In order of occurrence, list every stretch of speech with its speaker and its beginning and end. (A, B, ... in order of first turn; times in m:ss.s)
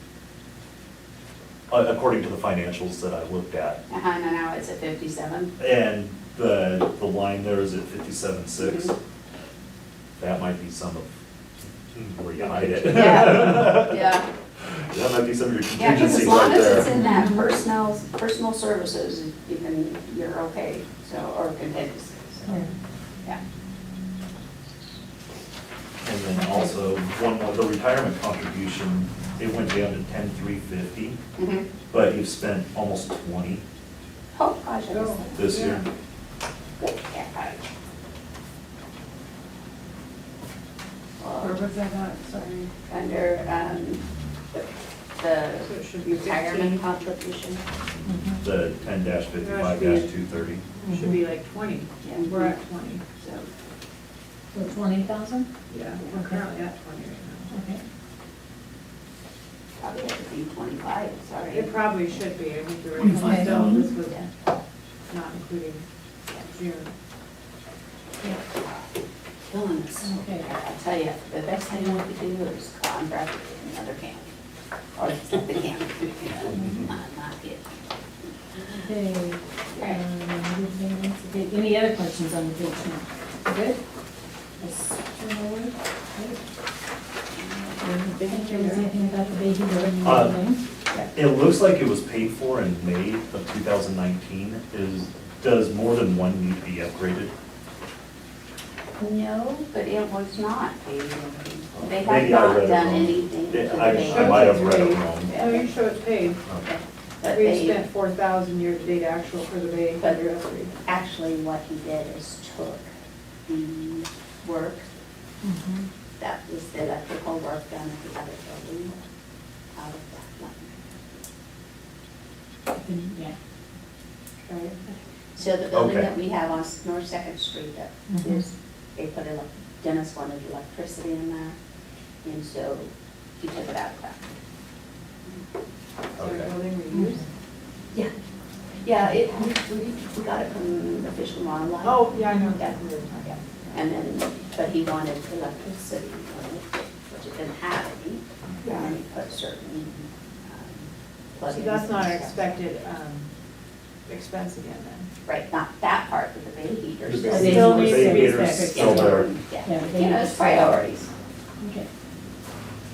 0:01.7-0:03.8 A
0:03.9-0:05.5 B
0:05.6-0:08.9 A
0:08.6-0:08.9 B
0:10.2-0:11.1 A
0:11.9-0:14.0 A
0:12.4-0:14.3 B
0:14.6-0:17.0 A
0:15.7-0:22.6 B
0:16.8-0:17.4 C
0:22.4-0:22.7 C
0:26.0-0:31.2 A
0:31.4-0:31.7 B
0:31.9-0:33.6 A
0:34.3-0:35.4 B
0:34.9-0:35.8 D
0:35.4-0:35.8 A
0:36.8-0:37.6 B
0:41.2-0:41.6 B
0:41.4-0:42.7 D
0:42.8-0:47.6 B
0:45.6-0:46.8 D
0:48.0-0:48.4 C
0:48.4-0:50.6 A
0:49.4-0:50.1 D
0:50.8-0:53.0 D
0:50.8-0:51.1 C
0:52.0-0:52.5 B
0:53.2-0:53.5 B
0:54.5-0:55.5 C
0:55.7-0:57.5 D
0:56.1-0:56.4 C
0:57.5-0:57.8 C
0:59.8-1:01.7 B
1:01.5-1:04.3 D
1:03.0-1:03.8 C
1:05.1-1:05.8 D
1:06.4-1:06.9 D
1:09.4-1:14.3 B
1:10.0-1:10.5 C
1:15.0-1:17.7 B
1:18.6-1:23.8 C
1:19.7-1:20.0 B
1:24.6-1:26.4 C
1:27.4-1:27.8 B
1:27.8-1:29.2 D
1:28.2-1:30.6 C
1:30.0-1:30.4 A
1:31.1-1:37.3 A
1:39.0-1:45.8 B
1:41.8-1:45.3 A
1:43.8-1:46.4 D
1:46.6-1:47.8 B
1:47.2-1:50.7 D
1:50.0-1:50.3 B
1:50.8-1:52.9 B
1:53.5-1:54.8 B
1:55.4-1:55.9 C
1:56.2-1:59.0 B
1:59.7-2:01.0 B
2:02.7-2:03.4 C
2:04.4-2:04.8 D
2:05.4-2:11.5 B
2:05.7-2:06.1 A
2:08.1-2:08.4 C
2:12.2-2:14.3 B
2:16.1-2:17.3 D
2:16.2-2:16.5 A
2:16.9-2:17.2 C
2:18.8-2:22.8 B
2:21.8-2:23.8 D
2:23.7-2:32.5 B
2:28.6-2:28.9 D
2:31.5-2:33.3 D
2:34.1-2:35.1 D
2:35.3-2:41.1 B
2:37.0-2:39.3 A
2:37.3-2:40.8 C
2:37.5-2:38.5 D
2:41.6-2:41.9 C